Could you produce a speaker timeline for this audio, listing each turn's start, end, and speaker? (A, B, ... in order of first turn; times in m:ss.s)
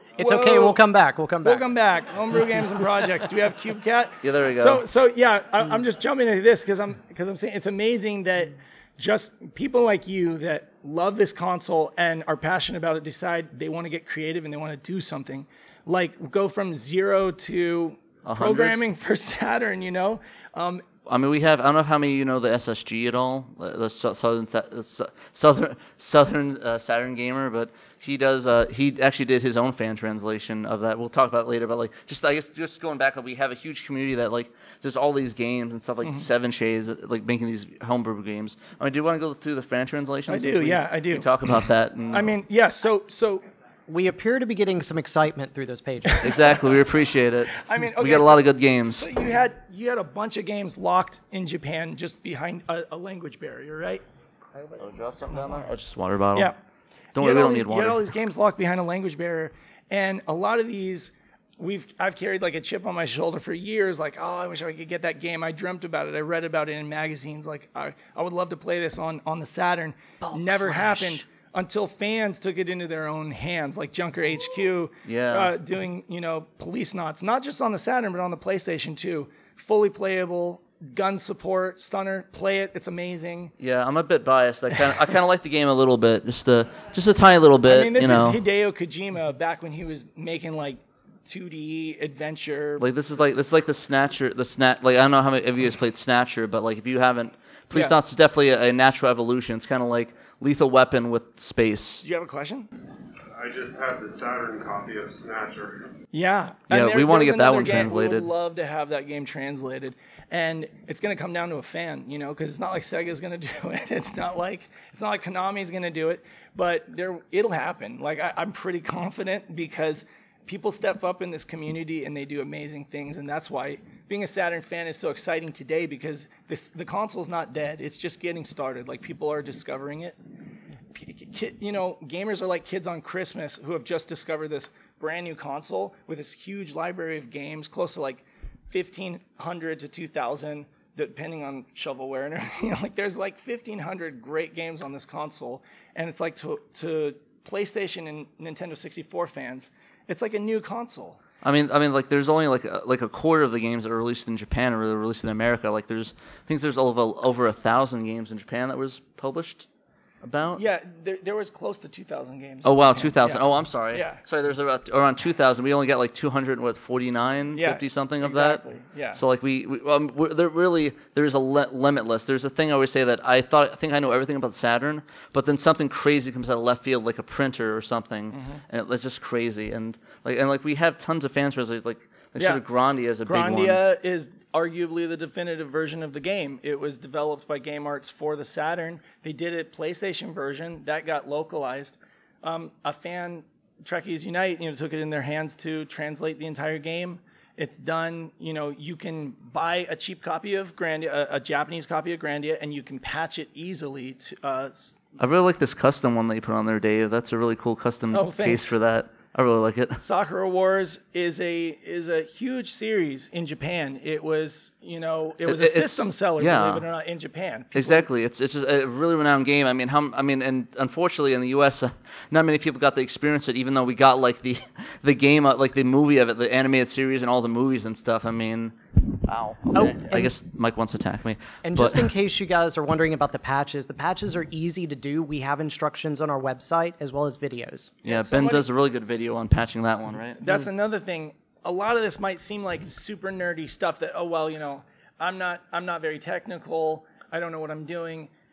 0:00.2-0:00.8 A
0:00.2-0:01.6 B
0:01.4-0:20.8 A
0:04.2-0:04.8 C
0:18.2-0:18.8 C
0:21.0-0:42.3 C
0:40.3-0:41.3 A
0:42.1-0:43.4 A
0:43.9-0:46.3 B
0:46.2-0:46.6 A
0:46.2-0:49.1 C
0:47.5-0:55.6 A
0:54.8-0:56.5 C
0:57.1-0:58.0 C
0:57.2-1:23.5 A
1:15.0-1:15.5 C
1:23.6-1:28.4 C
1:27.6-1:32.9 A
1:32.8-1:42.0 C
1:42.0-1:42.7 A
1:43.4-1:45.9 D
1:46.1-2:10.2 A
1:46.7-1:48.3 C
2:10.9-2:31.2 A
2:31.4-2:39.7 C
2:40.2-2:40.6 C
2:40.5-2:44.2 A
2:42.6-3:03.8 C
2:47.5-2:49.2 A
2:58.3-2:58.6 A
3:02.4-3:02.6 A
3:03.2-3:25.0 A
3:25.2-3:30.0 C
3:28.1-3:28.7 A
3:30.0-3:38.1 A
3:35.4-3:36.9 C
3:37.7-3:52.1 C
3:49.7-3:50.3 B
3:51.6-3:58.0 B
3:58.0-4:00.4 C
3:58.0-3:58.6 A
4:00.4-4:08.3 A